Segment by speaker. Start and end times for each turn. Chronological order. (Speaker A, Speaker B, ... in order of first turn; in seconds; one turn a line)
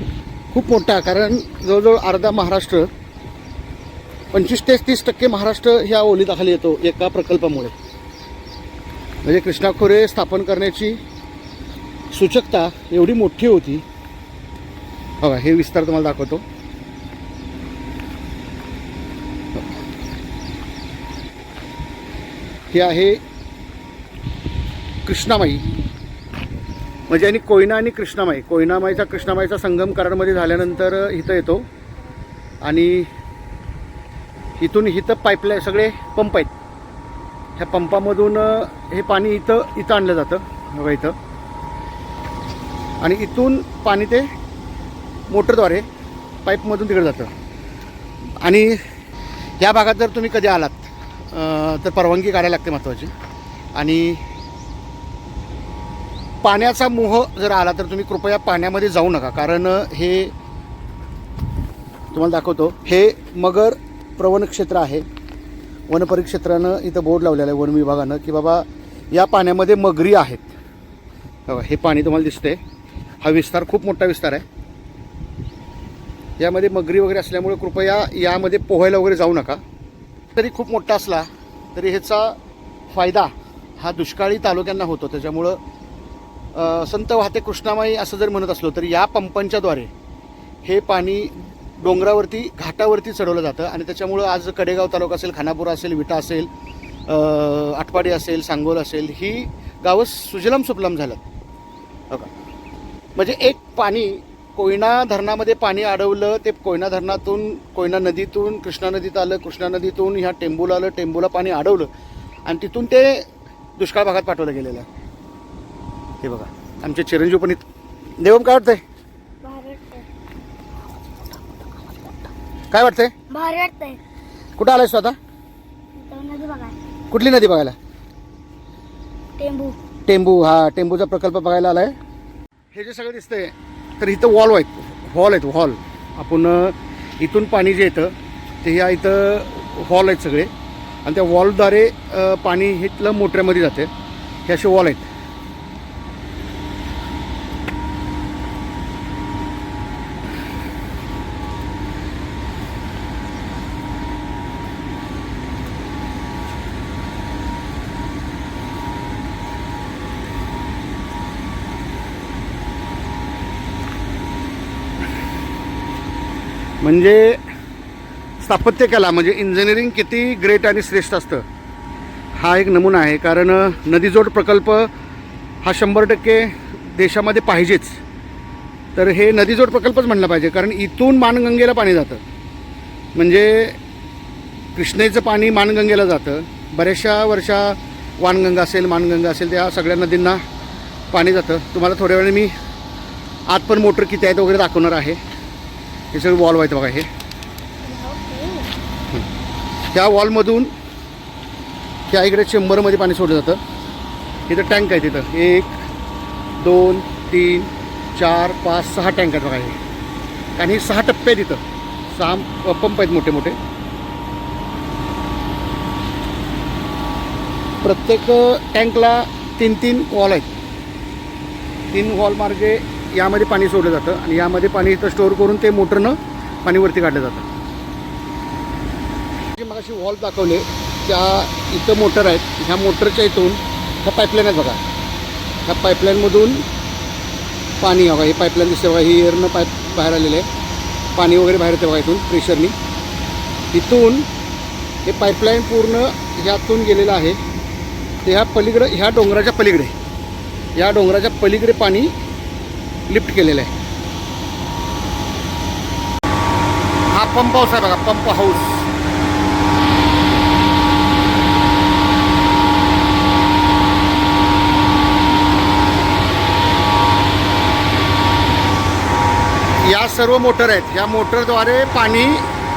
Speaker A: 0.5-2.9
Speaker A: 4.3-7.7
Speaker A: 9.2-11.0
Speaker A: 12.1-13.8
Speaker A: 15.2-16.4
Speaker A: 22.7-23.2
Speaker A: 25.1-25.8
Speaker A: 27.1-31.7
Speaker A: 32.6-33.1
Speaker A: 34.6-36.5
Speaker A: 37.6-41.1
Speaker A: 43.0-44.3
Speaker A: 45.3-45.9
Speaker A: 46.5-47.3
Speaker A: 48.4-48.8
Speaker A: 49.6-53.1
Speaker A: 53.8-54.2
Speaker A: 56.4-60.3
Speaker A: 62.1-65.0
Speaker A: 65.9-70.5
Speaker A: 71.5-72.6
Speaker A: 73.2-74.4
Speaker A: 76.4-79.6
Speaker A: 80.3-82.4
Speaker A: 82.9-85.6
Speaker A: 86.5-89.9
Speaker A: 90.7-96.5
Speaker A: 97.1-101.2
Speaker A: 103.2-111.9
Speaker A: 112.5-114.9
Speaker A: 116.2-117.6
Speaker A: 118.2-118.8
Speaker B: 119.4-120.1
Speaker A: 122.7-123.1
Speaker B: 123.3-124.0
Speaker A: 124.6-125.2
Speaker B: 126.0-126.8
Speaker A: 127.1-127.8
Speaker B: 129.4-129.8
Speaker A: 130.1-131.9
Speaker A: 132.7-140.5
Speaker A: 141.1-143.9
Speaker A: 144.5-145.1
Speaker A: 166.8-167.4
Speaker A: 168.4-171.4
Speaker A: 172.4-174.9
Speaker A: 175.6-178.0
Speaker A: 178.9-182.2
Speaker A: 183.2-183.8
Speaker A: 184.8-190.4
Speaker A: 191.1-192.5
Speaker A: 193.5-195.2
Speaker A: 196.1-197.1
Speaker B: 197.8-198.7
Speaker A: 199.9-200.7
Speaker A: 202.1-203.6
Speaker A: 204.5-205.8
Speaker A: 206.6-209.8
Speaker A: 210.6-213.6
Speaker A: 217.8-220.5
Speaker A: 221.9-227.5
Speaker A: 229.6-234.8
Speaker A: 235.7-236.7
Speaker A: 237.8-240.5
Speaker A: 241.2-242.8
Speaker A: 243.7-244.3
Speaker A: 245.1-247.4
Speaker A: 248.2-249.9
Speaker A: 250.8-252.1
Speaker A: 253.1-253.7
Speaker A: 257.1-258.9
Speaker A: 269.8-272.5